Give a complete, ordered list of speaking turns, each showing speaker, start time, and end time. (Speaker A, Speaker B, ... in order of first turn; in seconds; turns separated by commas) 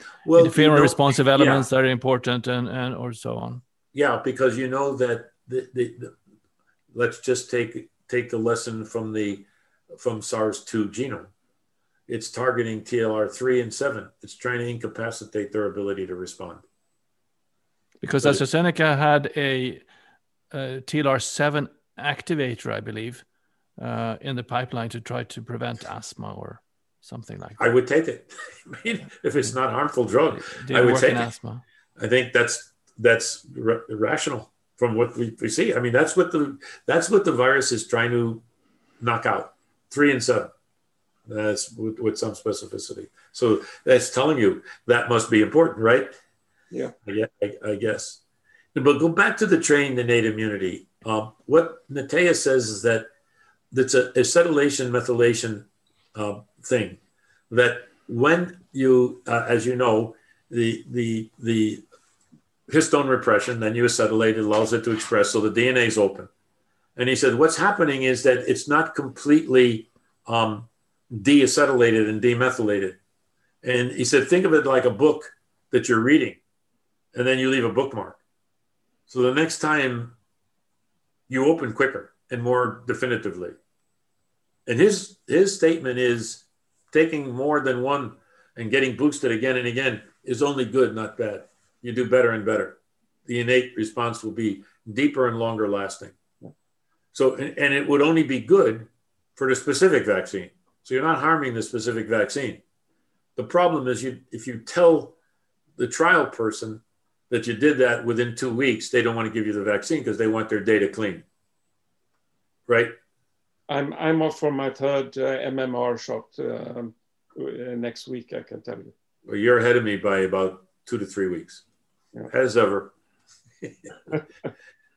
Speaker A: 0.2-1.6, Speaker B: 0.3-3.6, Speaker A: 3.9-6.1, Speaker A: 6.9-11.3, Speaker A: 12.1-16.6, Speaker B: 18.0-19.8, Speaker B: 20.5-23.2, Speaker B: 23.8-27.6, Speaker A: 27.6-31.3, Speaker B: 30.3-31.6, Speaker A: 32.0-38.4, Speaker A: 39.0-40.5, Speaker A: 41.3-46.1, Speaker A: 47.0-48.2, Speaker A: 48.7-53.1, Speaker A: 53.7-57.0, Speaker A: 57.5-61.8, Speaker A: 62.7-66.3, Speaker A: 67.0-73.0, Speaker A: 73.6-76.4, Speaker A: 77.1-78.2, Speaker A: 79.1-80.1, Speaker A: 81.3-83.5, Speaker A: 84.7-96.1, Speaker A: 97.1-102.6, Speaker A: 103.3-105.2, Speaker A: 105.8-111.2, Speaker A: 112.7-113.0, Speaker C: 113.7-118.9, Speaker A: 119.2-121.6, Speaker A: 122.3-122.9, Speaker A: 123.6-124.1